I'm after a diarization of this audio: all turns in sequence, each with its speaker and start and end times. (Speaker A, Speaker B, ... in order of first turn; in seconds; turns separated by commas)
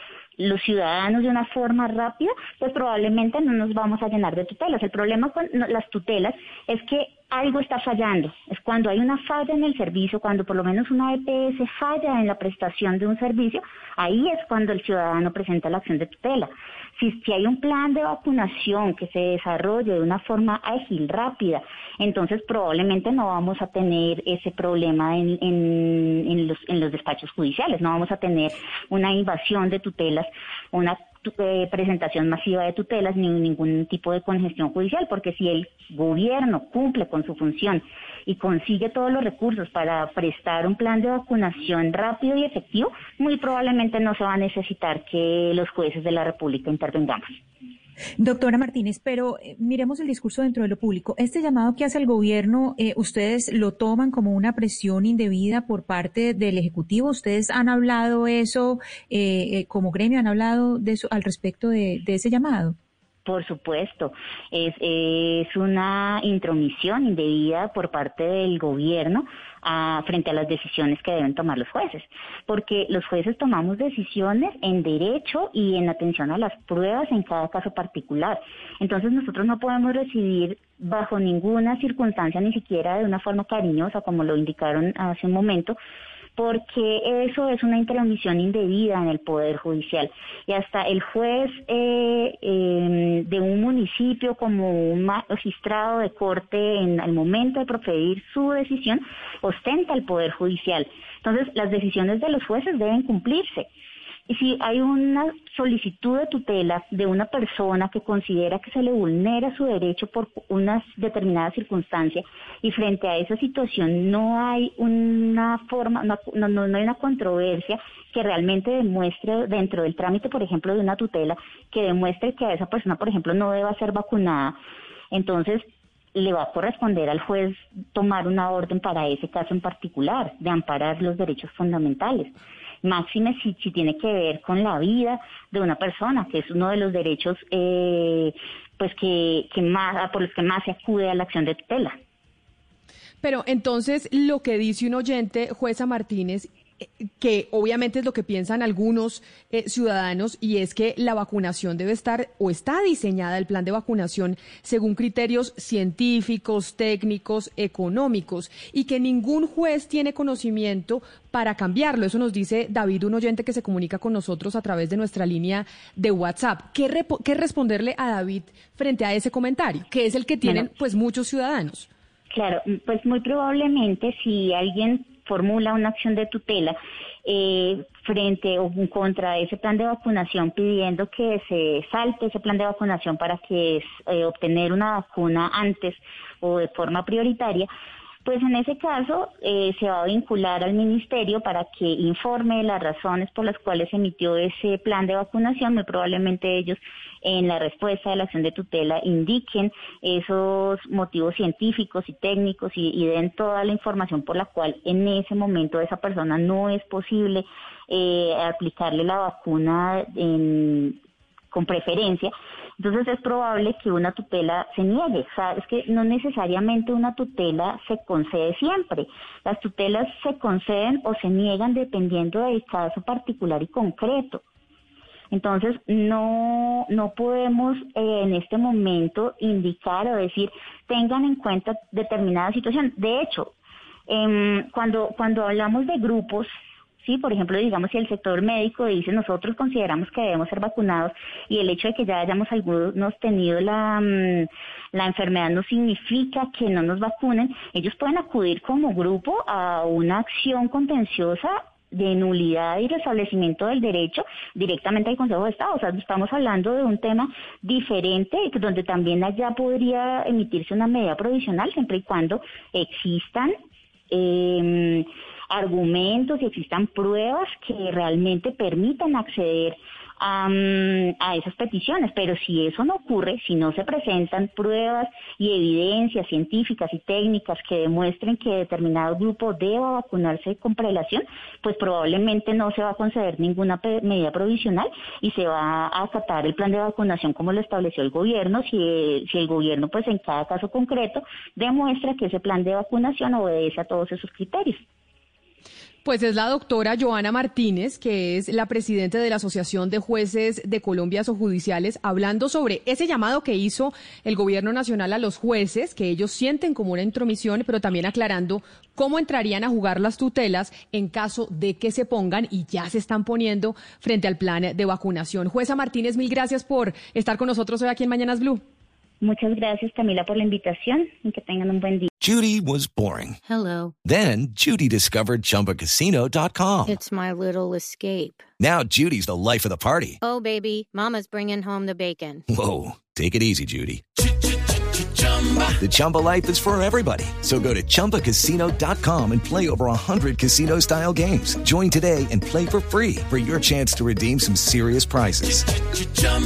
Speaker A: 0.4-47.2, Speaker B: 48.2-62.8, Speaker A: 63.2-85.8, Speaker A: 86.3-103.7, Speaker A: 104.3-124.5, Speaker A: 125.1-125.6, Speaker A: 126.1-141.9, Speaker C: 143.2-146.5, Speaker C: 147.2-171.9, Speaker A: 172.3-187.7, Speaker A: 188.2-210.9, Speaker A: 211.5-224.4, Speaker A: 225.3-233.5, Speaker A: 234.1-236.5, Speaker A: 237.0-263.5, Speaker A: 264.1-294.8, Speaker C: 296.0-318.6, Speaker A: 319.2-322.1, Speaker D: 322.2-323.4, Speaker E: 323.4-323.9, Speaker D: 324.0-327.0, Speaker E: 326.9-328.5, Speaker D: 328.6-330.2, Speaker E: 330.2-332.4, Speaker D: 332.5-334.0, Speaker D: 335.8-345.7